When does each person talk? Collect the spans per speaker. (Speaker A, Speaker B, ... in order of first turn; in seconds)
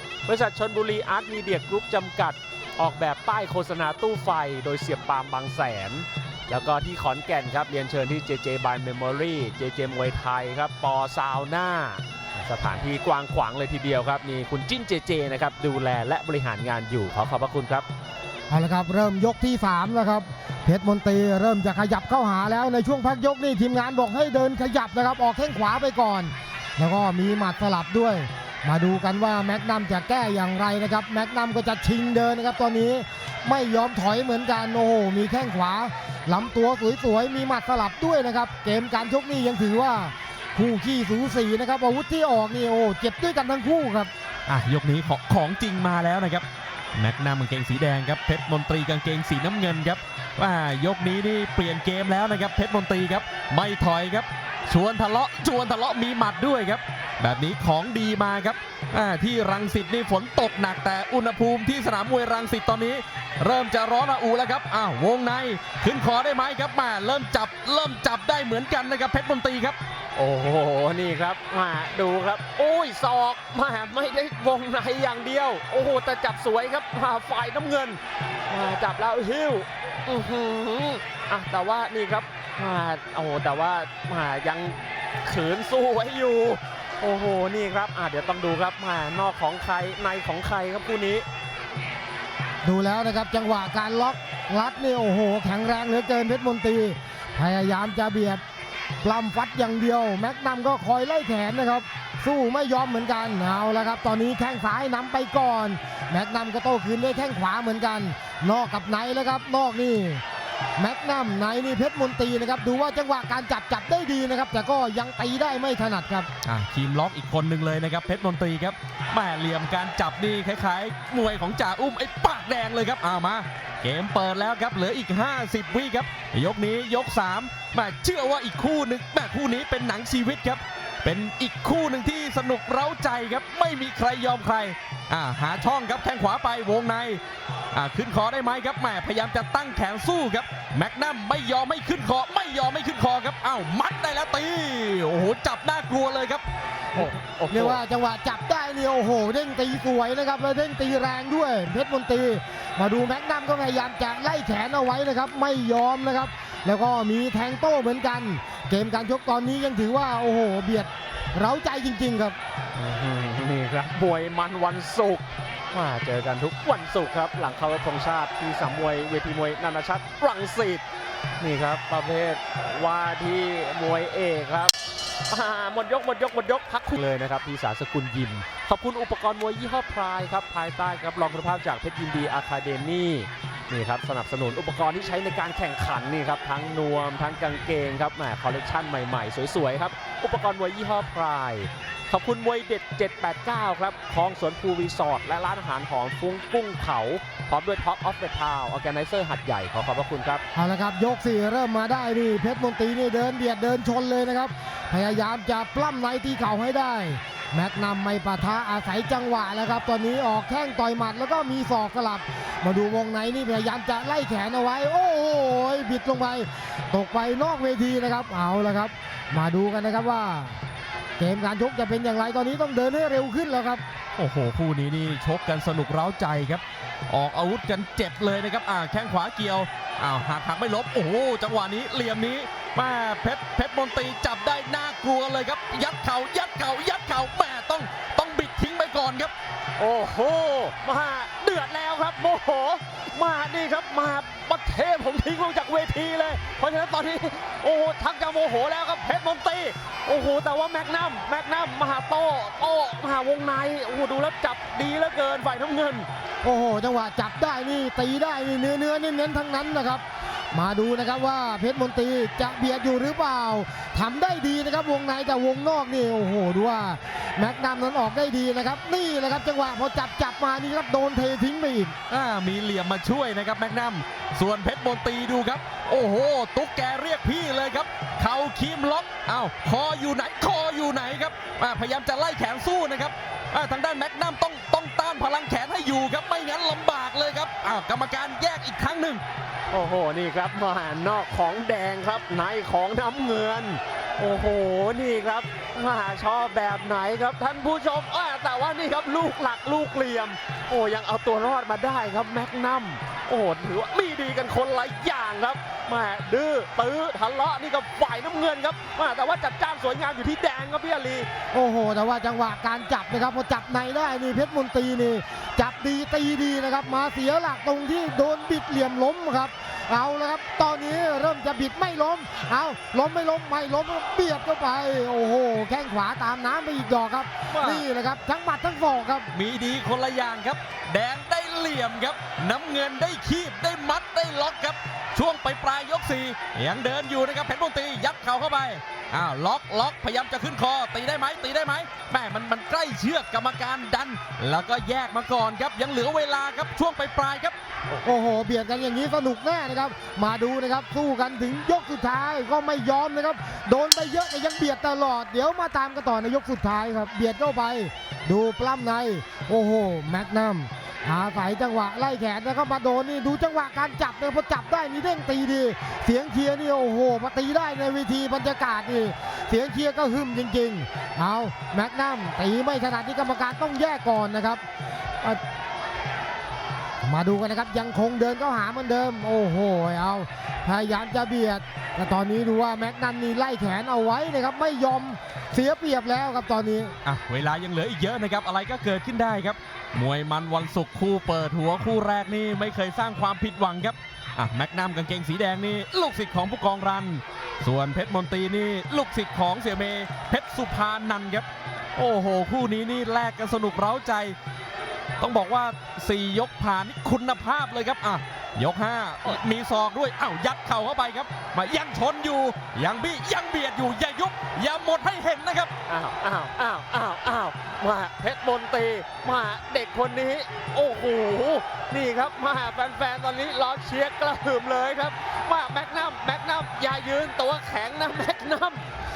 Speaker A: 0.2-17.9, 70.2-78.0, 78.5-91.2, 146.9-147.8, 162.7-170.8, 171.4-174.7, 175.3-200.4, 239.8-256.1, 289.7-311.3, 415.9-428.9
Speaker B: 18.5-44.1, 92.6-98.4, 99.0-110.2, 110.8-116.3, 146.9-162.4, 200.5-220.6, 221.2-223.8, 256.4-271.9, 311.5-329.3, 348.0-374.6, 377.0-386.9
Speaker C: 44.5-46.4, 47.0-69.8, 116.4-137.2, 137.7-146.4, 224.2-239.3, 272.1-289.2, 327.5-327.9, 329.3-347.5, 387.0-404.4, 405.2-415.7